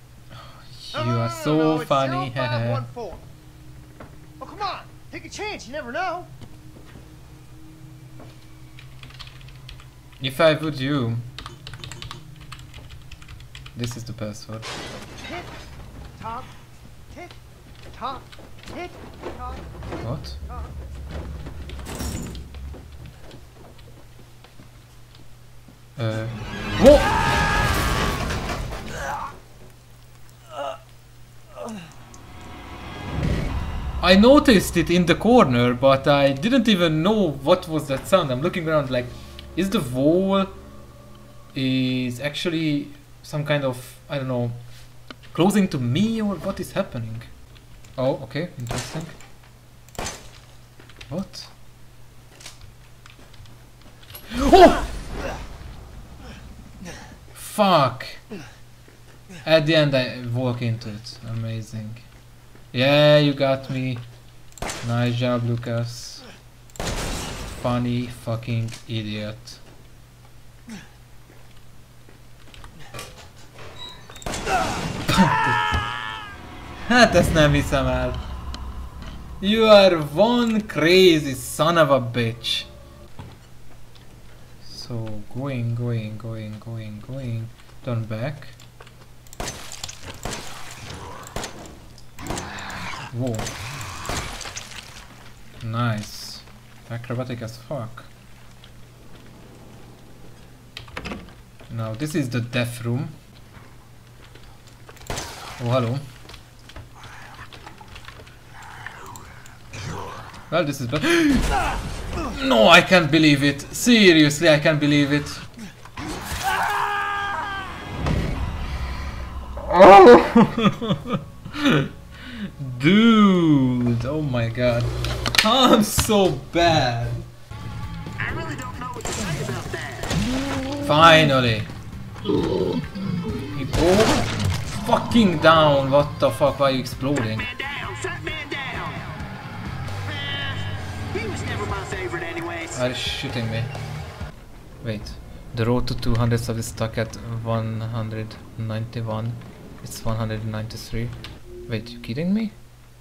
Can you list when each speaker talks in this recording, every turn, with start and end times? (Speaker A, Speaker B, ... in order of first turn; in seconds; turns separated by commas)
Speaker A: 0.7-2.9, Speaker B: 0.9-3.2, Speaker B: 4.4-6.2, Speaker A: 10.2-11.2, Speaker A: 13.8-14.7, Speaker B: 15.2-15.5, Speaker B: 16.2-16.5, Speaker B: 17.9-20.7, Speaker A: 20.0-20.4, Speaker A: 26.0-27.1, Speaker A: 34.0-40.5, Speaker A: 41.5-44.6, Speaker A: 45.3-47.3, Speaker A: 48.0-49.1, Speaker A: 51.1-51.5, Speaker A: 54.3-54.8, Speaker A: 57.4-58.2, Speaker A: 59.4-62.0, Speaker A: 62.7-64.0, Speaker A: 64.8-66.2, Speaker A: 67.5-69.6, Speaker A: 75.1-75.7, Speaker A: 76.8-78.2, Speaker A: 79.4-82.7, Speaker A: 84.6-88.6, Speaker A: 93.1-93.5, Speaker A: 95.6-98.1, Speaker A: 101.7-103.2, Speaker A: 105.6-106.0, Speaker A: 110.5-111.5, Speaker A: 112.3-115.4, Speaker A: 119.6-127.3, Speaker C: 128.3-130.1, Speaker A: 130.8-131.7, Speaker A: 133.5-137.5, Speaker C: 137.7-138.8, Speaker C: 141.3-142.5, Speaker A: 142.7-143.7, Speaker A: 144.8-151.2, Speaker A: 151.7-152.5